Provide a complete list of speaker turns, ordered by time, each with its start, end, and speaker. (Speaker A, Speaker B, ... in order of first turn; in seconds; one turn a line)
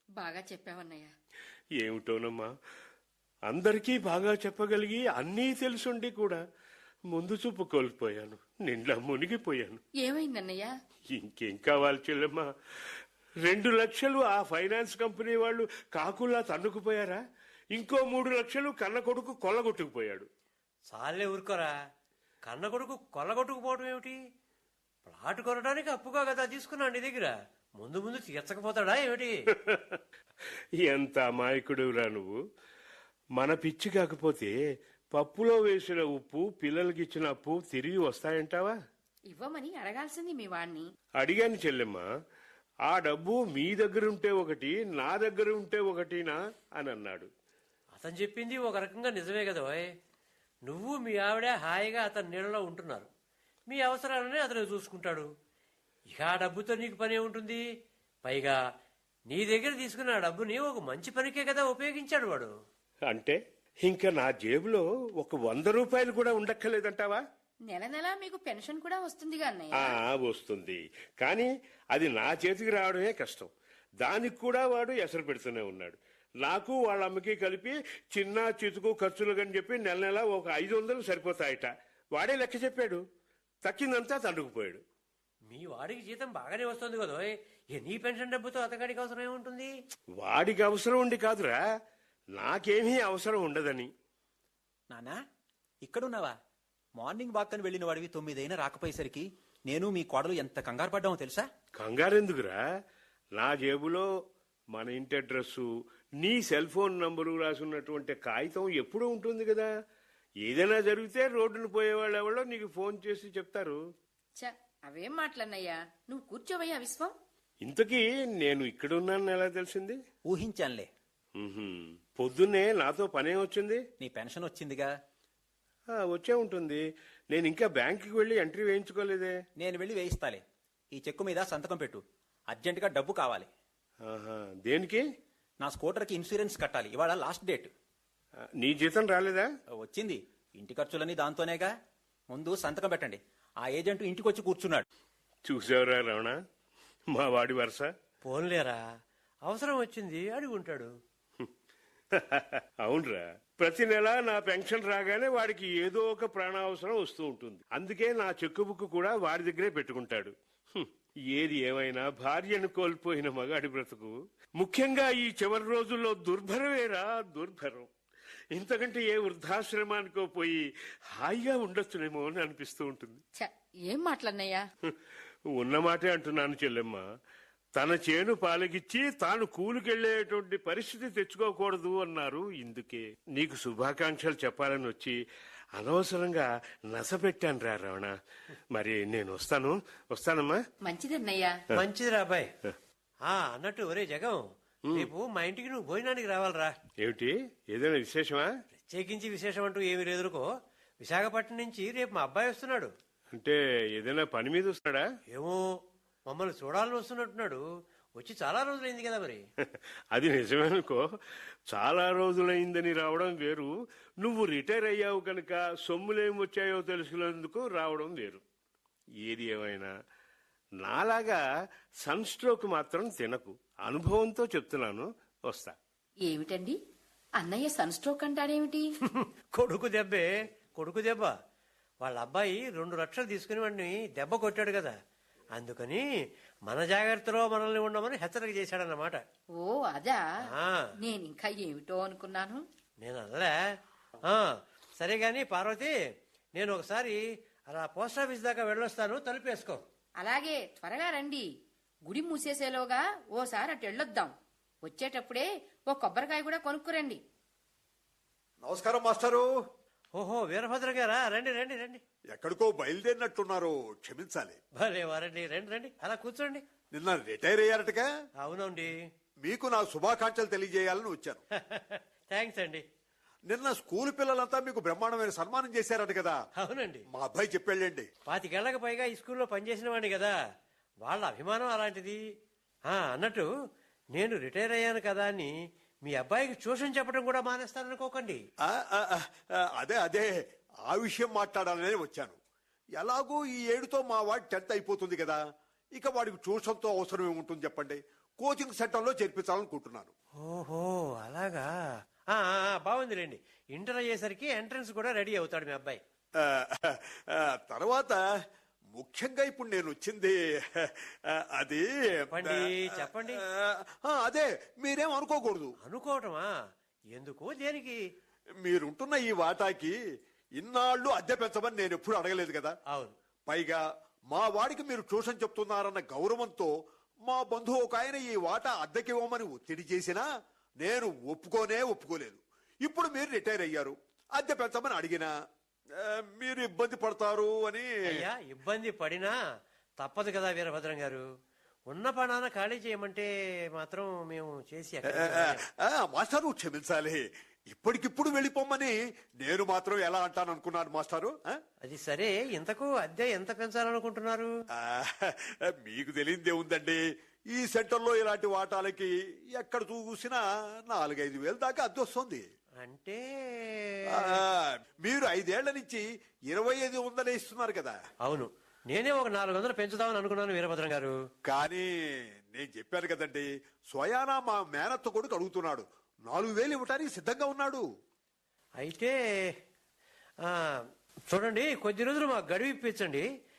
Speaker A: 0.2-1.1
Speaker B: 1.8-2.5
Speaker B: 3.5-6.4
Speaker B: 7.1-9.8
Speaker A: 10.0-10.7
Speaker B: 11.1-17.2
Speaker B: 17.7-20.3
Speaker C: 20.9-21.7
Speaker C: 22.4-24.2
Speaker C: 25.1-29.3
Speaker B: 29.5-30.0
Speaker B: 30.8-32.4
Speaker B: 33.4-34.5
Speaker B: 35.1-38.8
Speaker A: 39.3-40.9
Speaker B: 41.2-42.0
Speaker B: 42.9-47.3
Speaker C: 48.0-49.9
Speaker C: 50.7-53.1
Speaker C: 53.7-55.3
Speaker C: 56.1-57.6
Speaker C: 58.2-58.6
Speaker C: 59.3-62.5
Speaker B: 63.1-67.2
Speaker A: 67.7-70.0
Speaker B: 69.8-73.5
Speaker B: 74.0-83.0
Speaker B: 83.6-84.8
Speaker C: 85.5-89.7
Speaker B: 90.2-91.6
Speaker B: 92.3-93.9
Speaker D: 94.9-95.2
Speaker D: 95.8-96.3
Speaker D: 97.0-101.5
Speaker B: 101.8-102.6
Speaker B: 103.4-104.1
Speaker B: 104.7-105.7
Speaker B: 106.2-109.7
Speaker B: 110.4-113.8
Speaker A: 114.4-117.1
Speaker B: 117.6-120.0
Speaker D: 120.2-120.9
Speaker B: 121.4-123.8
Speaker D: 124.0-124.9
Speaker B: 125.9-129.4
Speaker D: 129.6-133.5
Speaker B: 134.0-135.0
Speaker D: 135.6-137.7
Speaker B: 138.6-139.5
Speaker D: 139.8-141.7
Speaker D: 142.3-144.8
Speaker B: 145.4-146.4
Speaker B: 147.1-147.9
Speaker C: 148.2-148.8
Speaker C: 149.5-150.9
Speaker B: 152.1-167.9
Speaker B: 168.5-170.6
Speaker B: 171.1-173.2
Speaker A: 173.4-174.6
Speaker B: 175.6-177.0
Speaker B: 177.8-185.2
Speaker B: 185.8-188.1
Speaker B: 188.7-190.6
Speaker A: 190.8-191.6
Speaker C: 191.7-192.5
Speaker C: 193.2-194.4
Speaker C: 194.9-196.7
Speaker B: 197.0-198.5
Speaker C: 198.9-200.5
Speaker C: 201.0-202.9
Speaker B: 203.3-205.1
Speaker C: 205.3-205.8
Speaker C: 206.3-207.6
Speaker C: 208.2-209.4
Speaker B: 210.1-211.1
Speaker B: 211.7-218.4
Speaker B: 219.2-219.9
Speaker B: 220.8-221.4
Speaker B: 222.0-225.8
Speaker A: 226.2-226.8
Speaker A: 227.4-228.8
Speaker C: 229.1-231.3
Speaker C: 232.0-234.9
Speaker C: 235.5-236.0
Speaker C: 236.7-239.2
Speaker A: 239.6-240.2
Speaker C: 240.5-240.9
Speaker A: 241.0-242.6
Speaker C: 243.0-243.5
Speaker C: 244.2-245.9
Speaker C: 246.6-247.2
Speaker C: 247.7-249.8
Speaker A: 250.2-251.5
Speaker A: 252.1-254.3
Speaker A: 254.8-257.2
Speaker E: 258.6-259.4
Speaker C: 260.2-262.0
Speaker E: 262.3-264.6
Speaker C: 264.8-266.6
Speaker E: 266.9-268.1
Speaker C: 268.4-268.9
Speaker E: 269.4-271.4
Speaker C: 271.6-272.8
Speaker E: 273.5-276.4
Speaker C: 276.6-277.0
Speaker E: 277.1-278.1
Speaker C: 278.3-280.3
Speaker C: 281.0-282.2
Speaker C: 282.9-283.5
Speaker C: 284.1-285.5
Speaker C: 286.0-288.4
Speaker E: 288.6-290.3
Speaker E: 290.9-292.4
Speaker E: 293.0-295.4
Speaker E: 295.9-300.1
Speaker C: 300.4-301.7
Speaker C: 302.3-306.0
Speaker E: 306.4-308.2
Speaker E: 308.9-315.7
Speaker C: 312.3-313.4
Speaker C: 315.8-316.5
Speaker C: 317.1-318.0
Speaker E: 318.6-319.9
Speaker E: 320.6-322.8
Speaker E: 323.5-326.7
Speaker E: 327.2-330.2
Speaker E: 330.8-335.3
Speaker E: 335.9-337.9
Speaker C: 338.1-339.3
Speaker C: 340.0-341.2
Speaker C: 341.9-345.6
Speaker E: 345.1-351.6
Speaker C: 351.8-354.5
Speaker E: 354.7-357.0
Speaker E: 357.5-362.5
Speaker C: 362.8-364.4
Speaker E: 364.1-368.0
Speaker C: 368.2-371.1
Speaker E: 371.4-371.9
Speaker E: 372.5-377.8
Speaker C: 378.8-379.6
Speaker C: 380.4-383.3